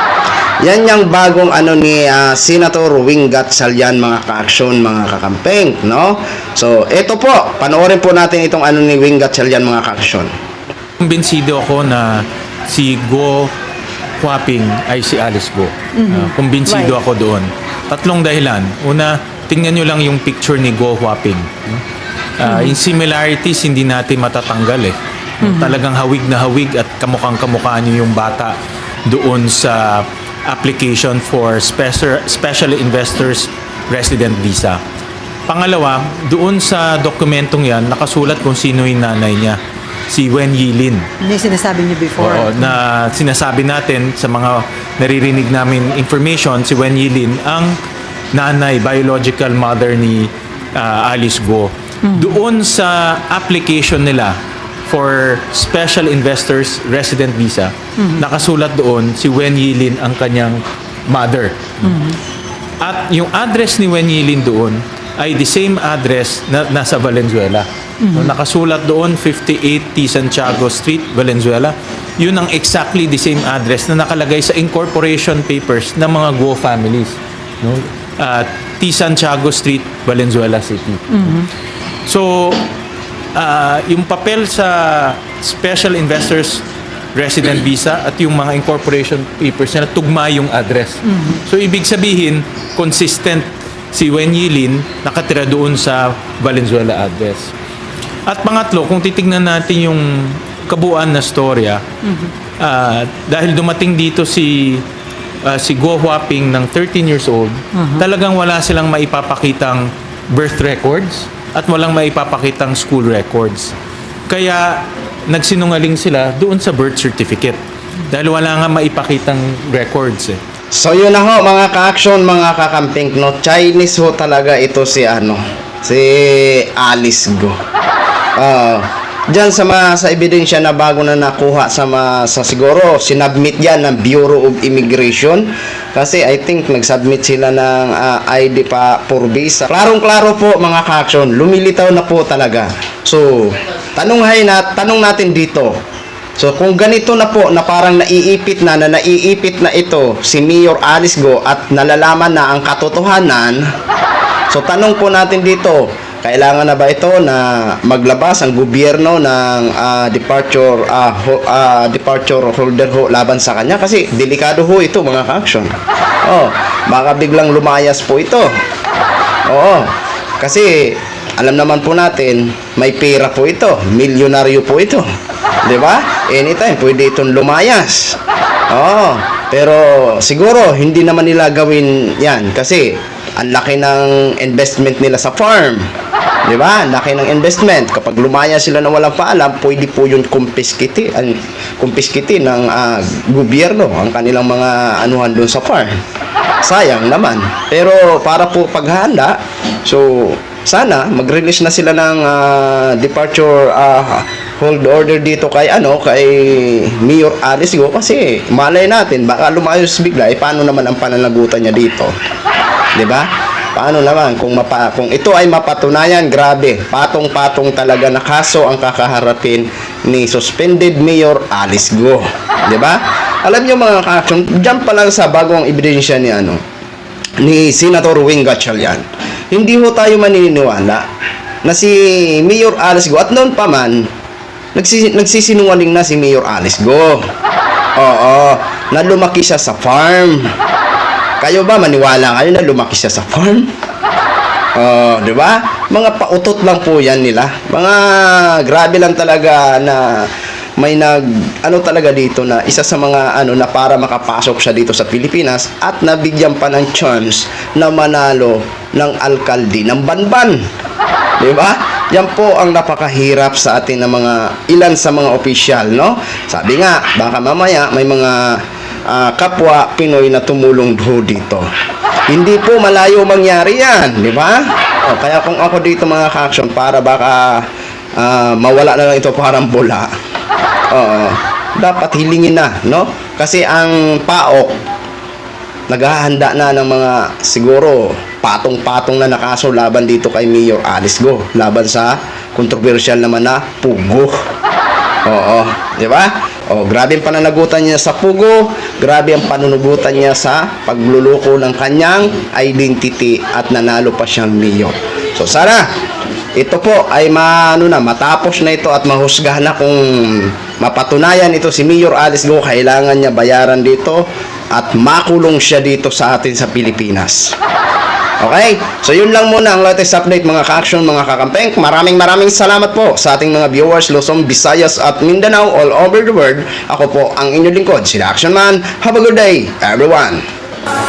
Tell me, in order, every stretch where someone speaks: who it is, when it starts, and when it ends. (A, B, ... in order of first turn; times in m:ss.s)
0:00.6-0:10.3 A
0:11.0-0:13.5 B
0:14.2-0:21.8 B
0:16.0-0:17.0 C
0:22.4-0:28.5 B
0:22.4-0:22.8 C
0:25.4-0:25.8 C
0:29.1-0:34.8 B
0:35.5-0:41.1 B
0:41.2-0:42.7 C
0:42.2-0:47.8 B
0:48.3-1:02.0 B
0:52.0-0:52.4 C
0:58.0-0:58.2 C
1:01.8-1:02.2 C
1:02.8-1:21.5 B
1:08.0-1:08.4 C
1:22.1-1:22.7 B
1:23.4-1:26.6 B
1:27.1-1:37.5 B
1:31.1-1:31.4 C
1:38.2-1:41.8 B
1:42.6-1:44.8 B
1:45.4-1:53.7 B
1:54.3-1:57.6 B
1:58.1-2:00.4 B
2:00.7-2:07.6 A
2:08.4-2:25.8 A
2:26.4-2:33.6 A
2:34.5-2:45.7 A
2:46.2-2:48.5 A
2:49.5-2:55.0 A
2:55.6-2:58.2 A
2:58.7-3:05.9 A
3:06.4-3:15.9 A
3:16.6-3:32.1 A
3:32.9-3:46.6 A
3:47.4-3:51.0 A
3:51.6-3:54.1 A
3:54.8-3:57.2 A
3:58.0-4:00.5 A
4:01.4-4:03.7 A
4:04.8-4:20.6 A
4:21.4-4:31.6 A
4:32.3-4:40.1 A
4:40.9-4:44.8 A
4:45.9-4:54.3 A
4:55.3-5:05.9 A
5:06.6-5:17.6 A
5:18.4-5:30.4 A